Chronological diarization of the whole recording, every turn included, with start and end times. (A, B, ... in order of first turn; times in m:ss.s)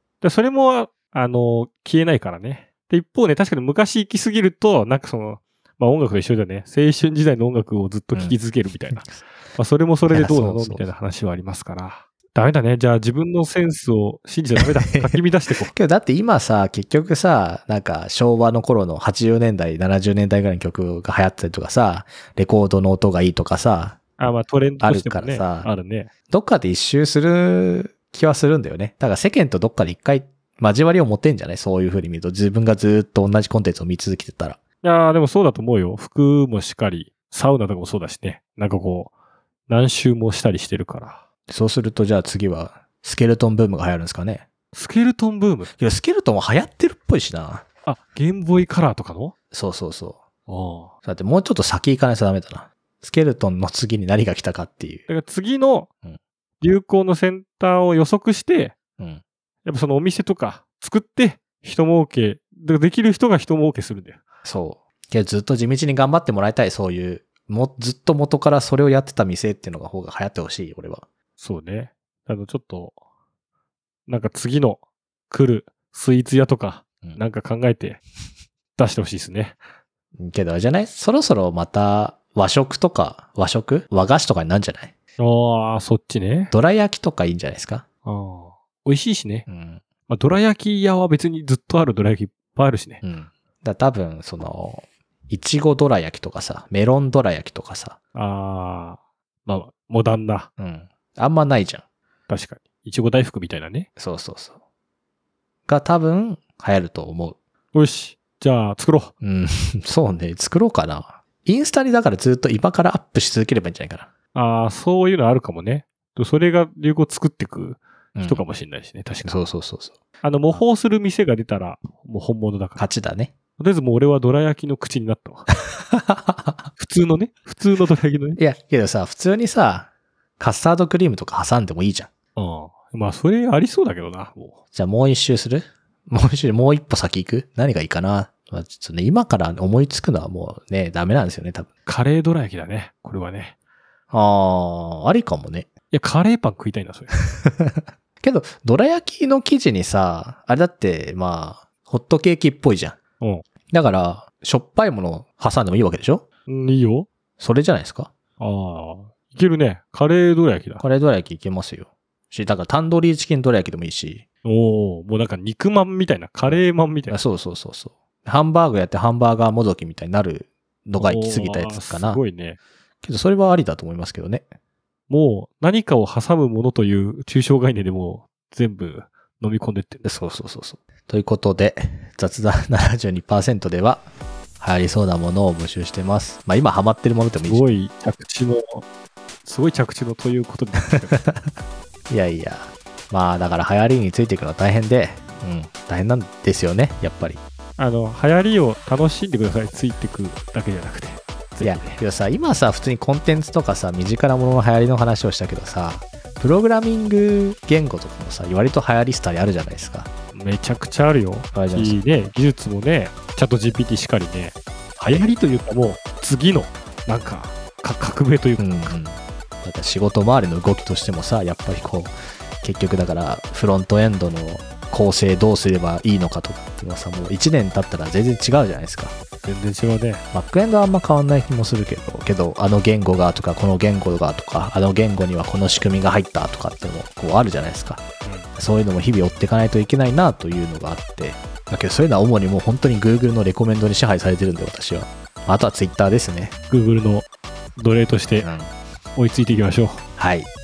0:00.2-0:15.7 A
0:09.0-0:09.2 B
0:10.1-0:10.9 B
0:14.6-0:15.2 B
0:15.7-0:24.0 B
0:24.2-0:26.1 A
0:24.8-0:25.7 B
0:26.3-0:34.6 B
0:34.8-0:39.1 A
0:39.7-0:41.2 A
0:41.5-0:44.4 B
0:44.7-0:45.7 A
0:45.8-0:47.6 B
0:47.9-0:49.3 A
0:49.5-0:50.2 B
0:50.5-0:50.9 A
0:51.0-0:55.1 B
0:55.1-0:55.9 A
0:56.6-0:58.8 A
0:59.0-0:59.2 B
0:59.6-1:04.2 A
1:04.4-1:11.1 B
1:11.4-1:12.9 A
1:14.1-1:18.0 A
1:18.8-1:19.6 A
1:20.2-1:24.9 B
1:25.2-1:26.5 A
1:26.5-1:27.8 B
1:28.0-1:29.4 A
1:29.5-1:29.8 B
1:30.1-1:33.0 A
1:33.0-1:38.0 B
1:38.1-1:40.5 A
1:40.6-1:41.8 B
1:42.3-1:43.9 A
1:44.0-1:44.6 B
1:45.7-1:47.4 B
1:47.7-1:49.1 A
1:49.2-1:54.1 B
1:54.3-1:59.4 A
1:58.1-1:58.4 B
1:59.2-2:00.0 B
2:00.2-2:02.8 A
2:02.8-2:03.3 B
2:03.6-2:05.4 A
2:05.8-2:06.7 B
2:06.8-2:08.4 A
2:08.4-2:09.9 B
2:10.4-2:12.1 B
2:12.4-2:14.6 A
2:14.7-2:21.7 B
2:21.9-2:23.5 A
2:24.1-2:25.7 B
2:25.9-2:27.1 A
2:27.4-2:33.0 B
2:33.2-2:33.4 A
2:33.7-2:36.2 B
2:36.5-2:37.1 A
2:37.4-2:38.1 B
2:38.4-2:40.8 A
2:40.8-2:44.2 B
2:44.4-2:47.2 A
2:47.1-2:52.2 B
2:51.0-2:52.6 A
2:53.0-2:54.4 B
2:55.1-3:00.0 A
3:00.0-3:04.1 B
3:04.6-3:07.6 B
3:07.5-3:08.9 A
3:09.4-3:11.2 A
3:11.1-3:11.5 B
3:12.1-3:17.4 B
3:17.8-3:22.0 A
3:21.6-3:30.1 B
3:30.3-3:39.0 A
3:31.5-3:32.0 B
3:38.6-3:49.1 B
3:49.4-3:50.2 A
3:50.3-3:58.0 B
3:58.2-3:58.5 A
3:58.5-4:06.5 B
4:06.7-4:07.2 A
4:07.8-4:08.5 A
4:08.4-4:08.7 B
4:09.2-4:10.0 A
4:10.2-4:10.5 B